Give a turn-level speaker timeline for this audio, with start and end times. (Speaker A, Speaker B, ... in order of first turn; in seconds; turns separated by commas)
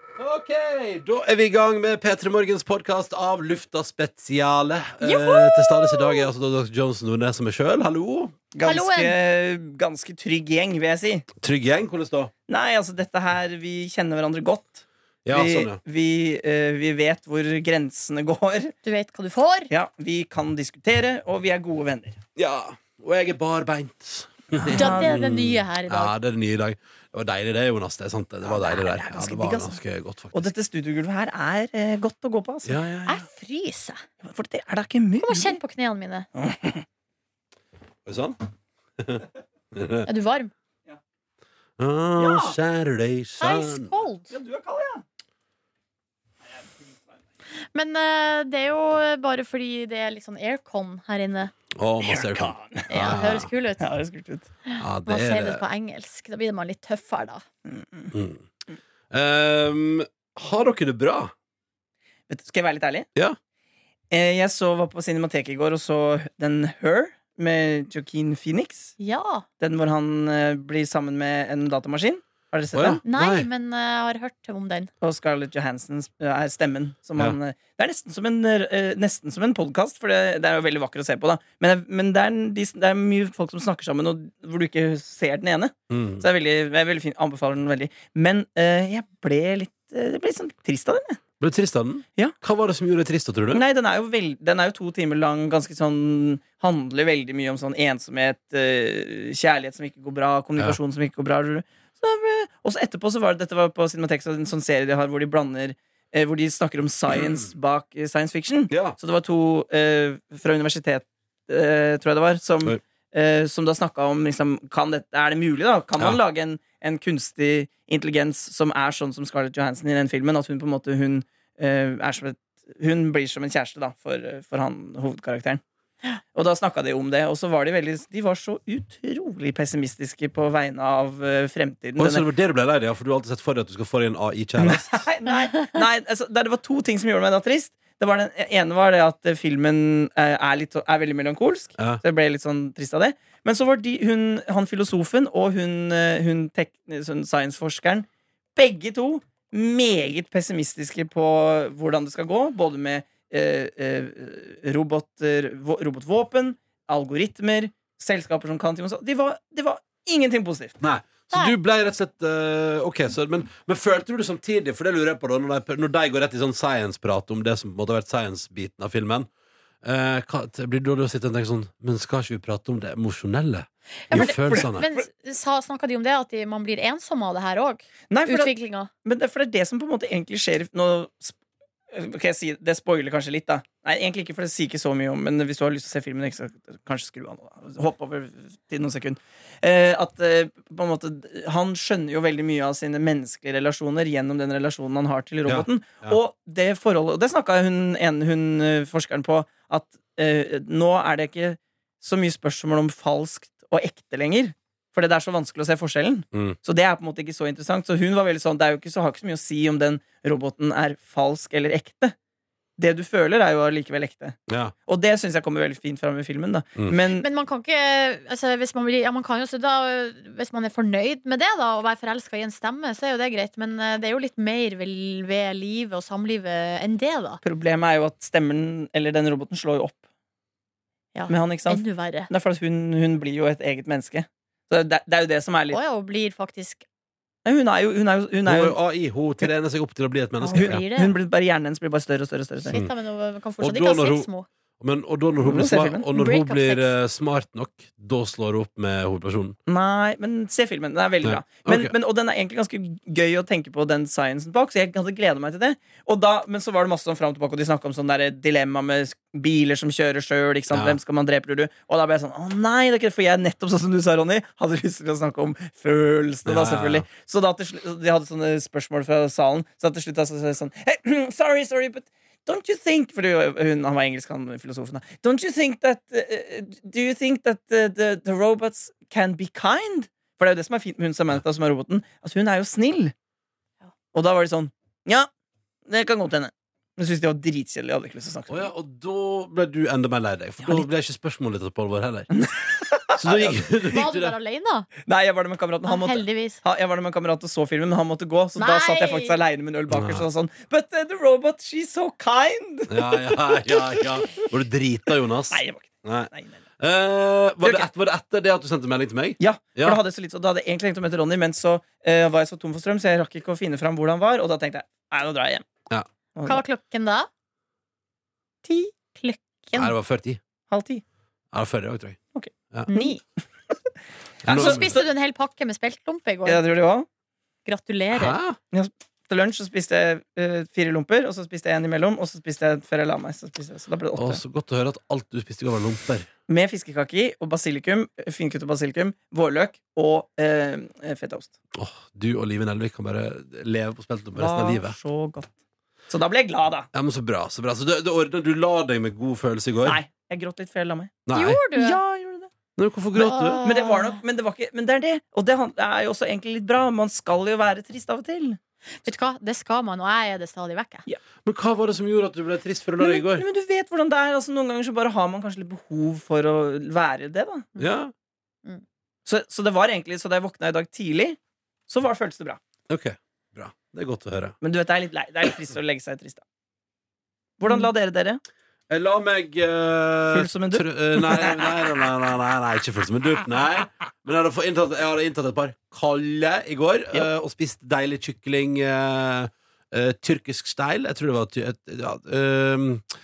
Speaker A: 0.2-8.4, Speaker B: 5.0-6.3, Speaker C: 8.5-11.3, Speaker B: 8.6-9.2, Speaker A: 11.4-12.3, Speaker C: 12.5-18.7, Speaker A: 15.2-15.8, Speaker B: 18.8-19.7, Speaker C: 19.7-22.2, Speaker A: 22.4-30.5, Speaker C: 24.5-25.2, Speaker B: 24.8-26.1, Speaker C: 28.5-29.8, Speaker C: 30.3-32.8, Speaker A: 32.6-33.3, Speaker B: 33.1-34.0, Speaker C: 34.2-35.6, Speaker B: 35.2-36.3, Speaker C: 36.4-36.8, Speaker A: 38.0-38.4, Speaker A: 39.0-40.1, Speaker B: 40.1-40.5, Speaker A: 41.8-43.9, Speaker C: 42.2-42.6, Speaker B: 43.4-44.3, Speaker C: 44.3-45.0, Speaker C: 46.5-47.0, Speaker B: 47.7-51.5, Speaker A: 51.7-53.5, Speaker C: 52.0-53.1, Speaker B: 52.9-53.8, Speaker C: 53.8-54.5, Speaker B: 54.7-57.4, Speaker A: 54.8-55.6, Speaker C: 57.7-58.1, Speaker A: 58.1-58.5, Speaker A: 59.1-61.3, Speaker C: 62.3-63.1, Speaker C: 64.1-69.0, Speaker B: 69.0-69.5, Speaker C: 69.6-73.0, Speaker A: 72.7-73.5, Speaker B: 73.1-74.9, Speaker C: 75.0-91.2, Speaker A: 85.9-86.2, Speaker A: 91.4-93.6, Speaker C: 93.5-125.6, Speaker A: 108.7-109.0, Speaker C: 126.3-132.2, Speaker A: 132.0-135.0, Speaker C: 134.6-160.8, Speaker A: 160.8-169.3, Speaker A: 169.8-174.9, Speaker B: 174.1-178.9, Speaker C: 174.1-175.0, Speaker C: 178.1-178.5, Speaker C: 179.1-181.4, Speaker C: 181.9-212.2, Speaker A: 195.5-196.2, Speaker C: 212.8-217.2, Speaker A: 214.5-214.7, Speaker B: 217.2-227.4, Speaker C: 227.4-230.0, Speaker B: 231.2-232.3, Speaker C: 231.3-235.8, Speaker B: 235.7-236.8, Speaker C: 237.4-238.8, Speaker A: 238.4-240.8, Speaker B: 240.4-241.1, Speaker C: 240.5-242.8, Speaker B: 242.6-244.5, Speaker A: 243.6-244.3, Speaker A: 244.8-249.6, Speaker C: 245.4-246.1, Speaker B: 246.1-246.9, Speaker C: 249.7-283.1, Speaker A: 251.2-251.9, Speaker A: 260.7-261.0, Speaker A: 266.5-267.1, Speaker C: 284.1-285.3, Speaker C: 285.9-288.7, Speaker A: 288.5-292.3, Speaker C: 292.3-293.5, Speaker A: 293.2-294.4, Speaker B: 293.8-294.9, Speaker C: 295.1-304.5, Speaker B: 295.9-296.6, Speaker B: 298.6-299.4, Speaker A: 299.9-300.2, Speaker A: 302.9-310.0, Speaker C: 305.5-306.6, Speaker C: 307.6-307.9, Speaker C: 309.4-315.7, Speaker C: 316.4-316.6, Speaker B: 316.4-317.3, Speaker B: 318.6-319.9, Speaker A: 319.7-320.4, Speaker C: 320.7-321.0, Speaker A: 321.5-322.2, Speaker C: 322.4-323.1, Speaker B: 322.9-323.2, Speaker A: 324.4-325.0, Speaker C: 324.5-325.1, Speaker B: 324.5-326.6, Speaker C: 326.4-327.1, Speaker B: 327.7-328.4, Speaker A: 328.1-328.6, Speaker C: 328.7-334.4, Speaker A: 334.1-336.3, Speaker C: 336.5-341.5, Speaker A: 341.8-345.0, Speaker C: 344.3-345.5, Speaker C: 346.1-346.9, Speaker A: 346.9-350.0, Speaker C: 349.8-351.2, Speaker A: 351.3-351.6, Speaker B: 351.3-352.0, Speaker C: 351.8-352.5, Speaker A: 352.8-353.6, Speaker B: 353.1-354.2, Speaker C: 353.6-358.6, Speaker B: 359.0-361.1, Speaker A: 361.4-363.4, Speaker C: 363.0-367.7, Speaker A: 367.8-368.1, Speaker C: 369.3-372.6, Speaker A: 372.9-374.6, Speaker C: 374.6-376.4, Speaker C: 377.6-378.4, Speaker A: 378.9-393.1, Speaker C: 380.3-381.8